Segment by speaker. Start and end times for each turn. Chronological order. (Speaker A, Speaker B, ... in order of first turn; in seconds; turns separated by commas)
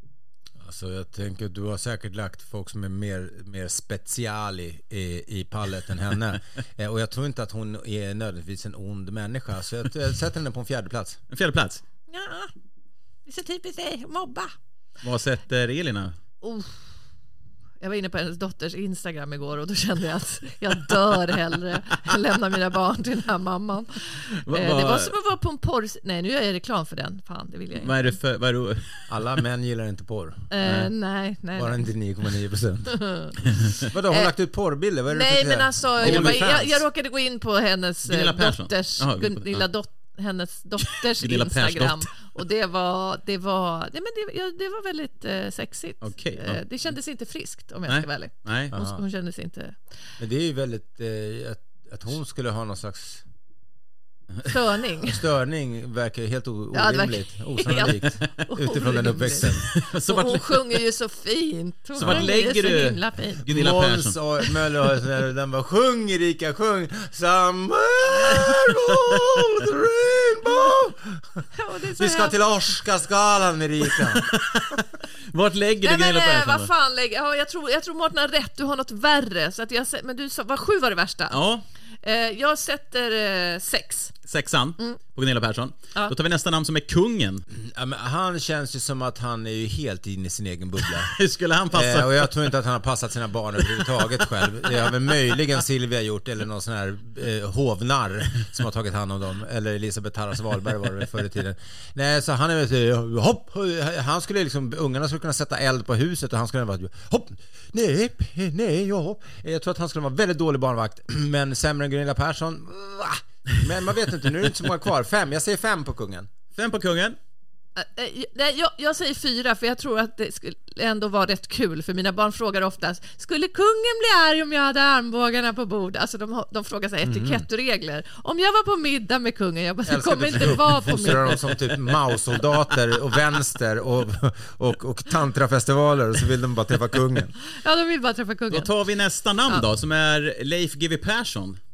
Speaker A: 0.6-11.2, Speaker B: 11.3-11.8, Speaker C: 12.1-12.5, Speaker C: 13.3-14.5, Speaker B: 15.0-16.2, Speaker C: 16.4-16.9, Speaker C: 17.8-28.2, Speaker B: 24.4-25.1, Speaker B: 27.8-29.1, Speaker A: 29.1-30.5, Speaker C: 30.5-31.9, Speaker B: 30.6-30.9, Speaker A: 31.6-33.0, Speaker C: 32.9-33.4, Speaker A: 33.8-36.8, Speaker C: 35.1-49.8, Speaker B: 36.0-36.6, Speaker B: 38.0-39.7, Speaker B: 40.8-42.3, Speaker B: 46.0-46.6, Speaker B: 47.9-48.8, Speaker A: 48.7-49.0, Speaker A: 50.2-53.2, Speaker C: 54.4-55.2, Speaker A: 55.1-59.6, Speaker C: 56.7-63.5, Speaker B: 59.6-60.8, Speaker B: 62.0-64.2, Speaker A: 62.0-62.3, Speaker A: 63.5-71.4, Speaker B: 68.3-69.5, Speaker C: 71.5-72.4, Speaker A: 72.0-74.3, Speaker B: 74.0-76.7, Speaker C: 75.8-81.4, Speaker B: 81.3-81.7, Speaker C: 82.0-84.2, Speaker B: 84.3-87.5, Speaker A: 87.5-91.2, Speaker B: 90.8-92.5, Speaker A: 91.7-116.3, Speaker B: 93.8-94.2, Speaker B: 116.5-117.2, Speaker C: 117.8-131.4, Speaker A: 127.0-127.4, Speaker A: 129.9-137.3, Speaker C: 137.4-138.7, Speaker B: 138.5-141.6